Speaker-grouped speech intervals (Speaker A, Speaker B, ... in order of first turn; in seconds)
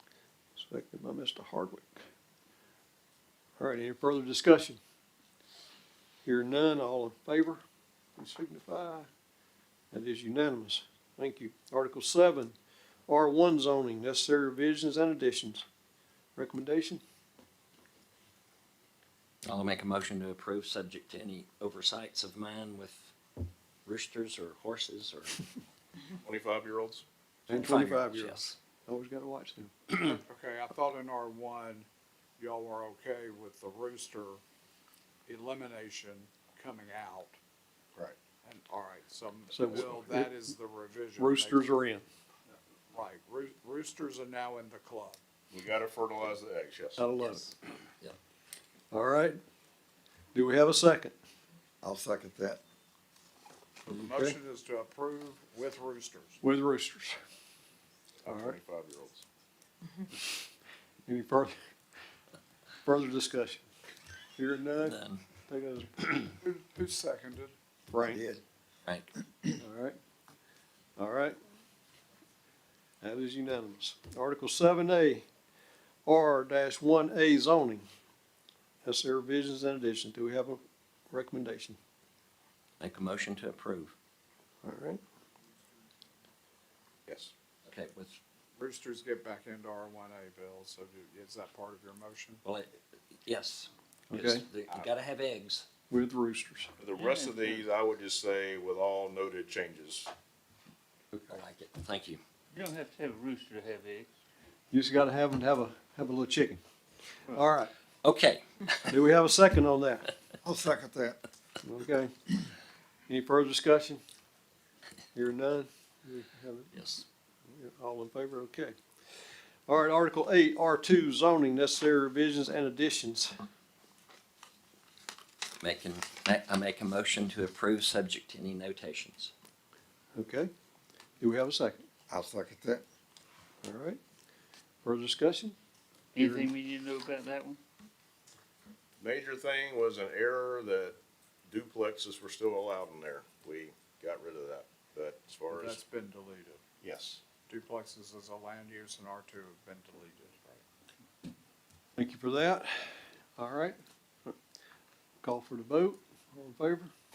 Speaker A: 0.6-2.0, 3.6-4.8, 6.2-7.6, 8.2-9.1, 9.9-12.5, 13.1-15.6, 16.4-17.0, 27.5-30.1, 39.5-40.3, 41.2-42.0, 47.0-47.5, 48.9-49.4, 50.3-51.1, 53.9-54.4, 56.4-57.2, 58.3-58.6, 61.0-61.5, 62.8-63.7, 64.3-66.2, 67.9-68.2, 69.6-70.0, 71.0-71.4, 73.0-75.2, 76.0-77.8, 78.8-81.8, 84.6-85.0, 94.1-94.4, 95.9-96.7, 104.7-106.6, 107.3-107.7, 108.9-110.1, 111.6-112.1, 113.1-114.0, 115.1-116.8, 117.5-118.8, 119.7-123.3, 130.2-130.5, 131.2-131.8, 133.6-134.0, 134.8-135.6, 136.2-136.5, 151.9-154.3, 155.2-156.9
Speaker B: 19.4-23.1, 23.8-25.4, 27.5-28.6, 64.8-65.2, 82.8-83.9, 87.6-88.2, 92.4-95.7, 101.3-102.2, 108.0-108.9, 116.7-117.0, 125.6-129.3
Speaker C: 26.2-27.1, 45.5-47.1, 58.2-59.2, 87.1-87.3, 96.8-100.1, 139.0-145.8, 146.8-147.2
Speaker D: 30.0-31.9, 32.4-34.4, 35.3-37.4, 38.4-41.7, 42.9-45.2, 53.8-56.4, 66.4-67.5, 88.6-92.4, 145.5-146.6, 147.4-150.6
Speaker E: 51.8-52.6, 68.0-68.4, 110.4-111.2, 132.1-132.8
Speaker F: 97.0-97.6, 102.5-104.1, 136.2-137.6